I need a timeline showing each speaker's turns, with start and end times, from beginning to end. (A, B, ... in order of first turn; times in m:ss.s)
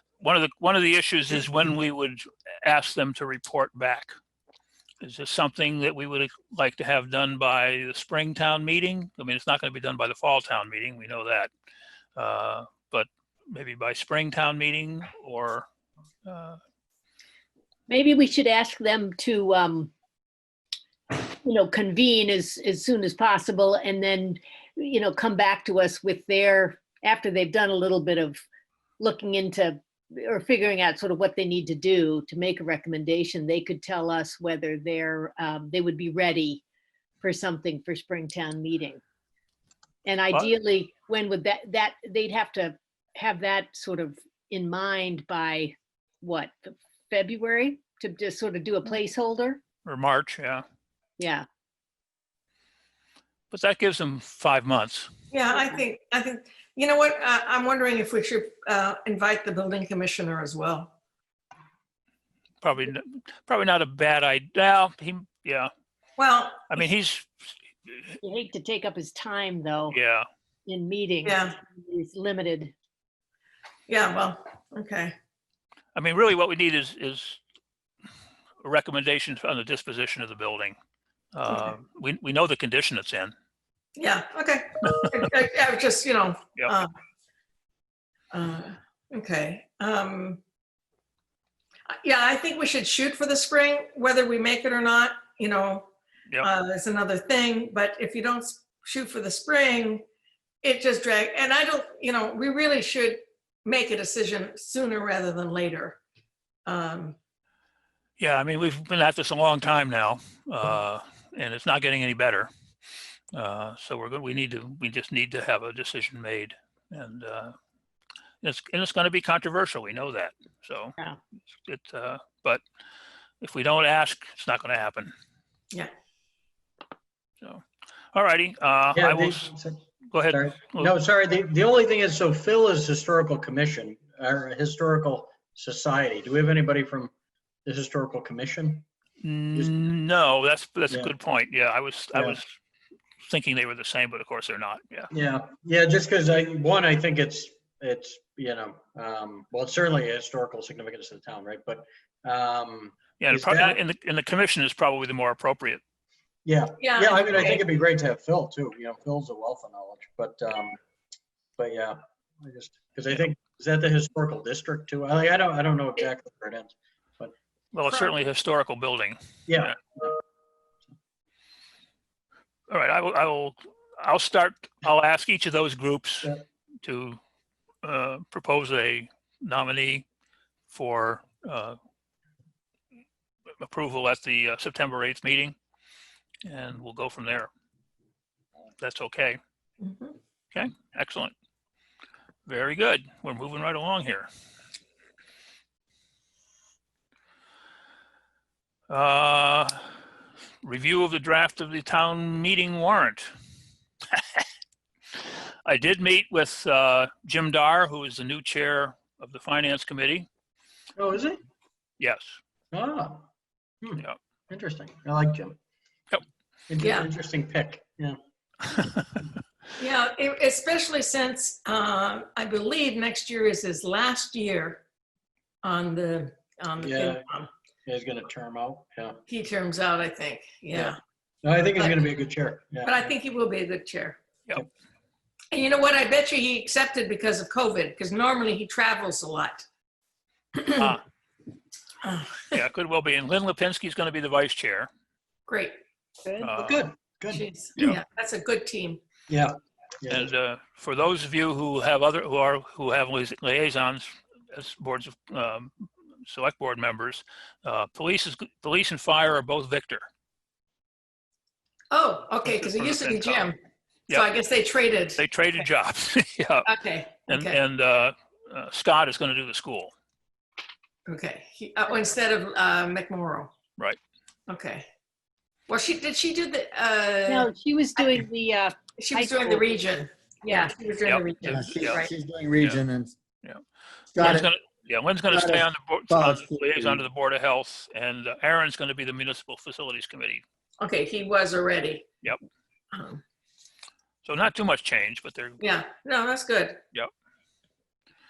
0:00.2-0:04.1 A
0:05.0-0:11.5 A
0:12.2-0:15.6 A
0:16.2-0:16.6 A
0:17.9-0:19.9 B
0:21.1-0:28.4 B
0:29.0-0:36.6 B
0:37.2-0:39.0 B
0:40.0-0:49.6 B
0:49.8-0:50.6 A
0:51.2-0:51.4 B
0:53.5-0:55.1 A
0:55.3-1:00.9 C
1:02.6-1:05.7 A
1:06.2-1:06.8 C
1:06.7-1:08.0 A
1:08.2-1:10.0 B
1:09.9-1:10.3 A
1:10.6-1:12.7 B
1:11.2-1:11.6 C
1:13.9-1:15.1 C
1:15.9-1:17.4 A
1:18.6-1:20.7 A
1:21.3-1:23.3 A
1:24.0-1:26.9 C
1:28.3-1:30.4 C
1:31.9-1:40.0 C
1:40.6-1:46.0 C
1:46.6-1:47.2 C
1:48.2-1:52.5 A
1:53.3-1:57.5 A
1:58.4-2:01.0 A
2:01.6-2:02.6 A
2:03.4-2:05.1 A
2:07.4-2:09.5 A
2:08.9-2:17.1 D
2:10.1-2:10.9 A
2:17.6-2:18.8 D
2:19.2-2:22.5 A
2:23.2-2:25.1 A
2:25.1-2:33.8 D
2:33.2-2:35.8 A
2:36.4-2:40.8 D
2:36.8-2:37.6 C
2:41.6-2:47.3 D
2:47.7-2:49.8 A
2:47.9-2:48.1 C
2:49.5-2:50.2 D
2:52.7-2:56.3 A
2:56.8-2:57.2 A
2:57.8-3:00.0 A
3:00.7-3:01.8 A
3:03.6-3:05.5 A
3:06.4-3:07.5 A
3:08.8-3:09.4 A
3:09.8-3:10.1 C
3:10.5-3:11.3 A
3:12.5-3:14.3 A
3:18.9-3:19.8 A
3:20.6-3:23.3 A
3:25.6-3:30.3 A
3:31.0-3:31.4 D
3:32.0-3:32.4 A
3:32.7-3:33.2 D
3:33.8-3:35.6 D
3:36.7-3:38.2 D
3:36.8-3:37.1 C
3:39.8-3:44.8 C
3:45.6-3:47.5 C
3:46.8-3:47.2 D
3:47.8-3:49.2 D
3:49.3-3:51.0 C
3:51.4-3:53.0 D
3:51.8-3:52.1 C
3:52.8-3:54.2 C
3:55.5-3:59.6 C
4:00.5-4:00.9 C
4:00.7-4:01.0 A
4:02.0-4:02.6 C
4:02.5-4:04.9 A
4:05.5-4:05.8 C
4:06.4-4:06.9 A
4:06.6-4:07.4 D
4:07.3-4:09.0 C
4:09.3-4:10.3 D
4:10.1-4:20.0 A
4:21.9-4:23.6 C
4:22.4-4:23.5 A
4:24.1-4:25.2 C
4:25.2-4:26.7 A
4:26.6-4:27.6 C
4:27.3-4:29.9 A
4:31.0-4:33.5 C
4:34.5-4:34.8 C
4:35.7-4:38.3 C
4:37.2-4:39.7 B
4:39.0-4:42.1 C
4:41.4-4:43.2 E
4:41.8-4:42.8 A
4:44.1-4:44.5 E
4:44.2-4:50.4 A
4:45.3-4:47.0 E
4:50.8-4:52.0 C
4:52.9-4:53.2 C
4:54.2-4:55.6 A
4:55.6-4:56.8 C